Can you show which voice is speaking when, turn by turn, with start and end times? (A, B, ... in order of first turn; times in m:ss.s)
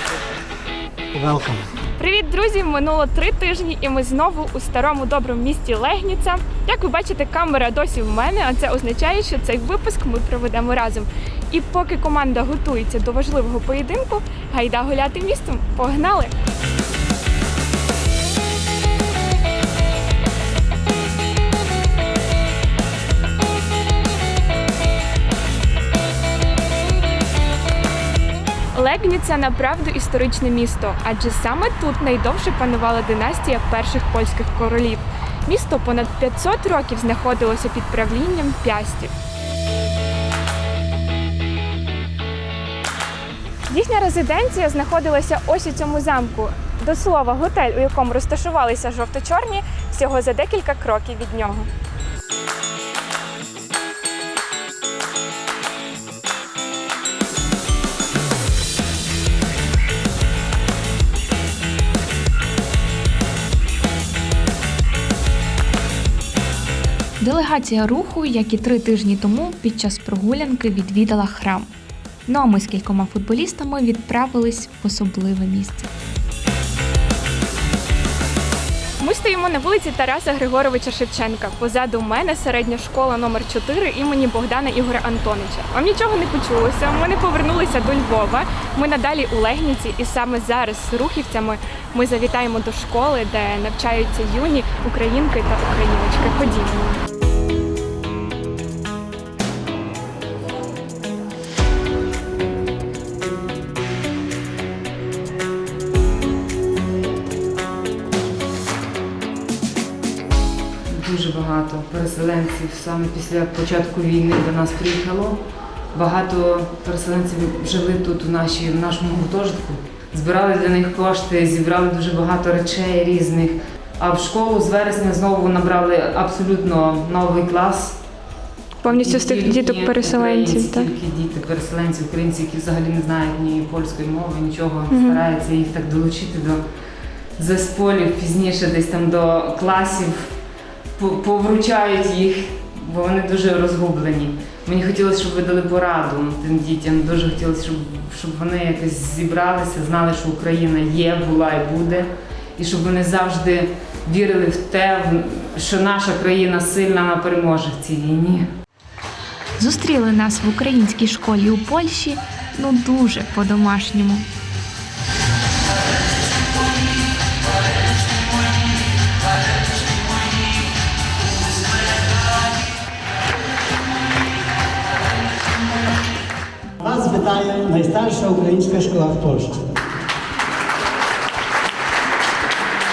0:01.2-0:01.6 A
0:02.0-0:16.3 B
0:28.8-0:39.1 B
0:43.7-0:51.7 B
1:07.2-1:11.7 B
1:12.3-1:15.9 B
1:19.0-1:37.0 B
1:50.9-1:55.4 C
1:55.9-2:08.0 C
2:08.8-2:10.9 B
2:08.9-2:16.6 C
2:14.9-2:15.2 B
2:17.4-2:20.4 C
2:21.0-2:38.5 C
2:39.6-2:44.2 B
2:56.8-2:59.5 A